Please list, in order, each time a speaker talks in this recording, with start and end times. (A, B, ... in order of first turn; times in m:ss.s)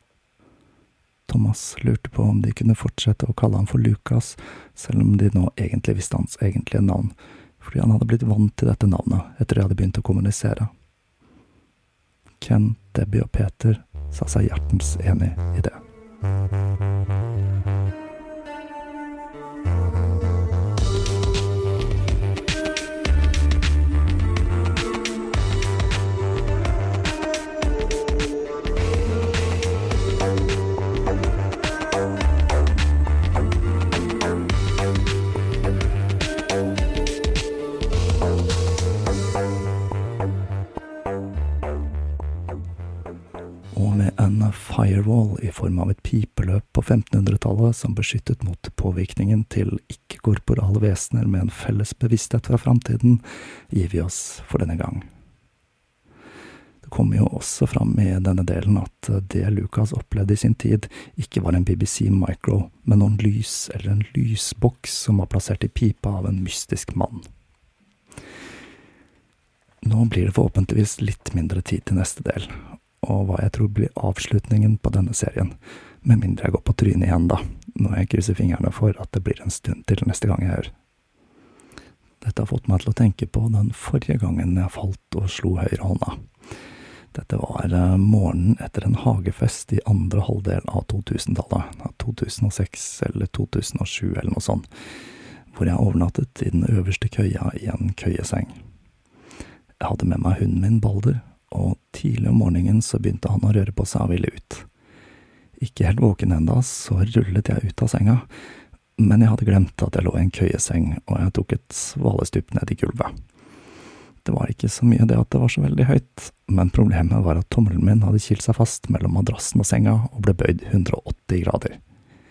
0:01.3-0:10.7 A
0:12.4-0:15.8 A
0:43.7-0:55.1 A
0:56.8-1:07.3 A
1:09.8-1:20.7 A
1:22.2-1:26.2 A
1:27.1-1:34.7 A
1:35.5-1:38.6 A
1:39.8-1:44.7 A
1:45.6-1:48.3 A
1:49.0-1:53.1 A
1:54.2-2:01.8 A